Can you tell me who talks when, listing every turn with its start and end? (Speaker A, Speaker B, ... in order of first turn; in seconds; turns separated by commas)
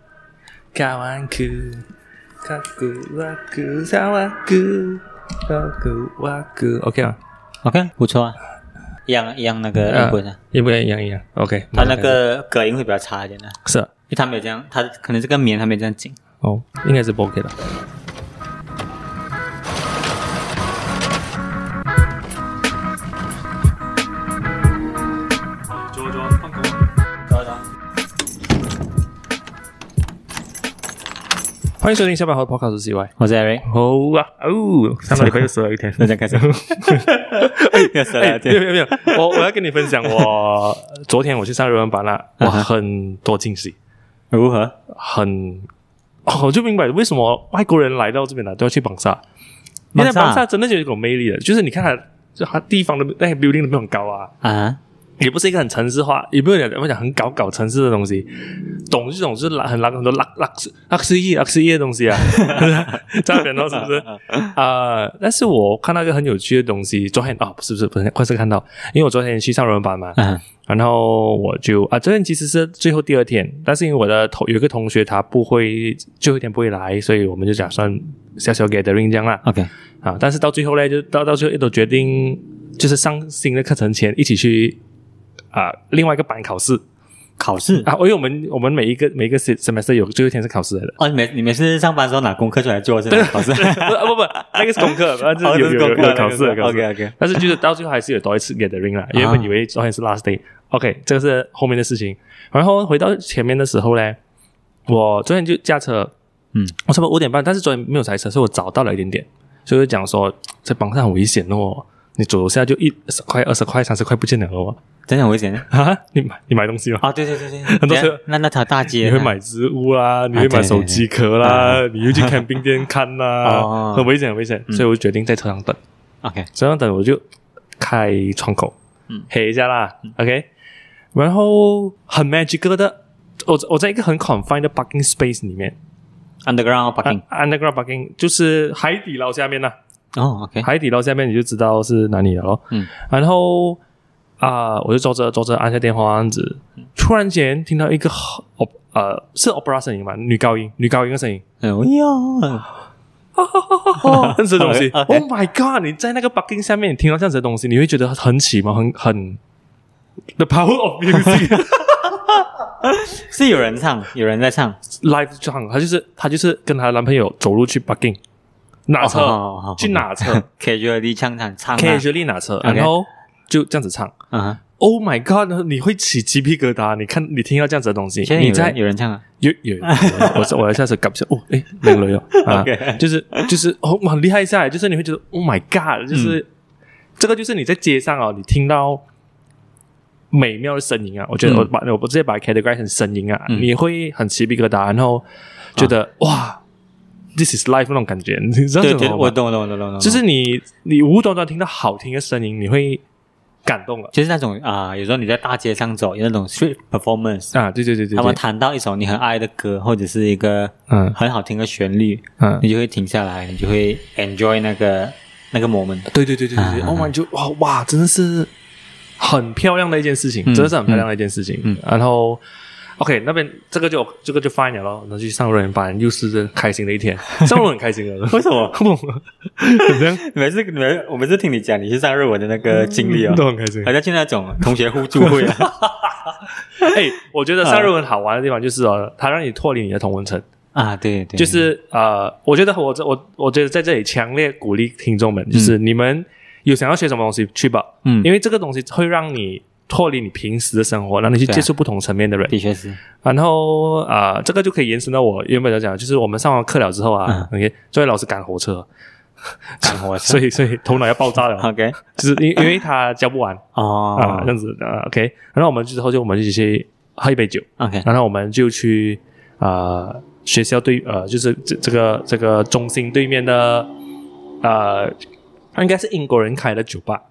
Speaker A: 0.8-1.8, Speaker A: 2.4-7.2, Speaker B: 7.6-8.4, Speaker B: 9.1-10.4, Speaker A: 9.8-12.2, Speaker B: 11.7-13.6, Speaker A: 13.7-13.9, Speaker B: 14.1-16.2, Speaker A: 16.4-17.5, Speaker A: 25.8-26.8, Speaker B: 27.3-27.6, Speaker A: 31.8-43.8, Speaker B: 33.2-33.6, Speaker B: 35.1-35.4, Speaker B: 36.0-39.5, Speaker B: 42.4-42.7, Speaker B: 44.3-44.8, Speaker A: 44.9-45.7, Speaker A: 46.3-49.2, Speaker B: 49.9-50.5, Speaker A: 50.0-54.3, Speaker B: 54.4-54.8, Speaker A: 55.2-79.4, Speaker B: 62.2-63.0, Speaker B: 63.7-64.5, Speaker B: 70.2-70.4, Speaker B: 79.4-79.7, Speaker A: 80.0-84.8, Speaker A: 85.5-86.8, Speaker B: 87.4-87.9, Speaker A: 87.8-91.0, Speaker B: 91.0-97.4, Speaker A: 93.1-104.2, Speaker B: 99.1-99.5, Speaker A: 104.9-106.1, Speaker A: 106.8-114.8, Speaker B: 115.1-115.7, Speaker A: 115.7-117.1, Speaker B: 117.0-119.3, Speaker A: 117.6-118.2, Speaker A: 118.9-125.8, Speaker B: 120.3-122.4, Speaker B: 123.4-124.1, Speaker B: 126.2-126.5, Speaker A: 126.5-127.2, Speaker A: 127.8-128.7, Speaker A: 129.3-130.5, Speaker A: 131.2-135.8, Speaker B: 136.4-137.2, Speaker A: 137.1-139.8, Speaker B: 140.1-140.7, Speaker A: 140.6-143.8, Speaker A: 144.4-151.4, Speaker B: 151.6-152.7, Speaker A: 153.4-159.4, Speaker B: 154.0-155.2, Speaker A: 160.4-162.4, Speaker B: 161.1-161.6, Speaker B: 162.8-164.8, Speaker A: 165.0-168.2, Speaker A: 168.9-170.4, Speaker B: 169.0-172.1, Speaker A: 171.8-174.1, Speaker B: 172.6-172.9, Speaker B: 174.3-174.6, Speaker A: 174.8-178.8, Speaker B: 178.2-179.2, Speaker A: 179.4-186.5, Speaker B: 179.8-180.5, Speaker B: 181.9-183.5, Speaker B: 186.1-186.4, Speaker A: 187.2-189.0, Speaker A: 190.3-195.2, Speaker A: 195.8-196.6, Speaker A: 197.4-199.4, Speaker B: 198.8-200.2, Speaker A: 200.0-203.0, Speaker A: 203.7-204.1, Speaker B: 204.1-207.5, Speaker A: 207.5-208.4, Speaker B: 208.2-217.1, Speaker A: 210.9-211.2, Speaker A: 212.4-212.7, Speaker A: 216.1-218.5, Speaker A: 219.2-222.4, Speaker B: 220.5-221.1, Speaker A: 223.0-230.2, Speaker B: 228.3-228.8, Speaker B: 229.9-236.3, Speaker A: 232.7-233.9, Speaker A: 235.2-235.6, Speaker A: 236.8-240.4, Speaker B: 237.6-237.9, Speaker B: 240.7-241.7, Speaker A: 241.4-252.6, Speaker B: 252.5-253.0, Speaker A: 253.2-258.9, Speaker A: 259.8-263.6, Speaker B: 259.8-260.4, Speaker B: 261.6-262.0, Speaker B: 263.8-264.5, Speaker A: 264.1-273.9, Speaker B: 267.8-268.1, Speaker A: 274.6-275.1, Speaker A: 275.8-277.2